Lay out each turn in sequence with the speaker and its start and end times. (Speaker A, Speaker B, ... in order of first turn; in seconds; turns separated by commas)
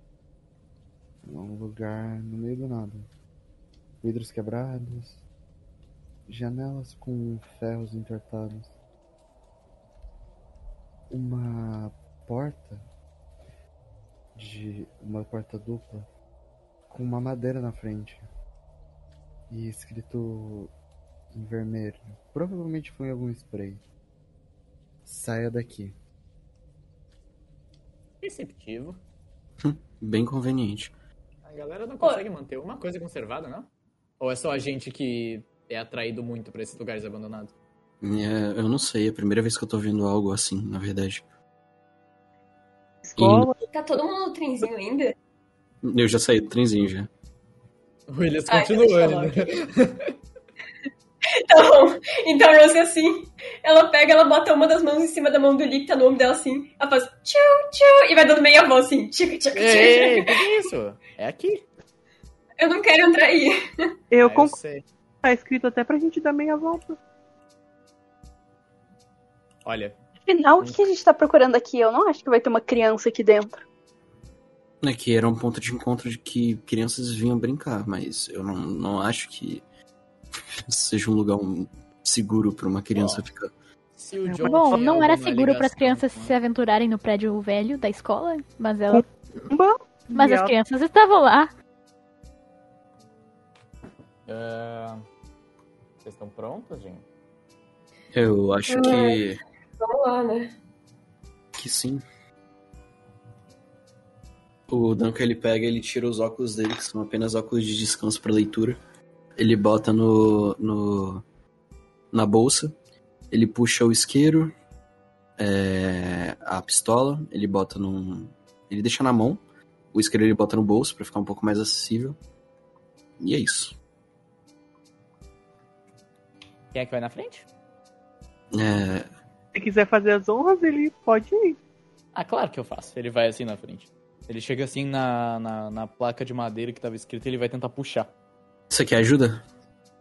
Speaker A: 1.2-3.1, Speaker A: 4.0-5.2, Speaker A: 6.3-8.7, Speaker A: 11.1-12.8, Speaker A: 14.3-16.1, Speaker A: 16.9-18.3, Speaker A: 19.5-20.7, Speaker A: 21.3-23.8, Speaker A: 25.1-25.9, Speaker B: 28.2-29.0, Speaker C: 29.6-30.9, Speaker B: 31.4-33.7, Speaker B: 34.2-37.5, Speaker C: 38.0-41.3, Speaker D: 43.0-43.6, Speaker C: 43.2-43.5, Speaker E: 43.7-45.1, Speaker C: 45.8-47.1, Speaker B: 48.1-50.1, Speaker E: 48.5-49.5, Speaker E: 51.4-60.4, Speaker B: 59.5-61.6, Speaker E: 62.6-63.9, Speaker D: 64.1-64.6, Speaker B: 64.2-64.8, Speaker D: 65.2-67.0, Speaker B: 69.7-70.0, Speaker F: 70.3-73.6, Speaker B: 70.6-70.9, Speaker C: 74.8-79.6, Speaker C: 80.3-83.5, Speaker B: 82.9-83.2, Speaker B: 84.0-86.3, Speaker D: 84.3-84.8, Speaker G: 84.4-89.0, Speaker D: 88.9-90.5, Speaker G: 90.1-91.5, Speaker B: 94.3-95.0, Speaker B: 96.0-97.0, Speaker C: 98.1-99.4, Speaker E: 98.7-99.2, Speaker E: 99.8-100.5, Speaker C: 101.5-102.0, Speaker C: 104.7-108.8, Speaker C: 109.4-111.2, Speaker C: 112.1-112.8, Speaker C: 113.3-114.5, Speaker C: 115.4-119.4, Speaker C: 119.9-122.2, Speaker C: 123.2-123.8, Speaker B: 126.7-127.5, Speaker C: 128.5-129.1, Speaker D: 129.6-131.6, Speaker B: 132.2-138.1, Speaker C: 138.7-139.4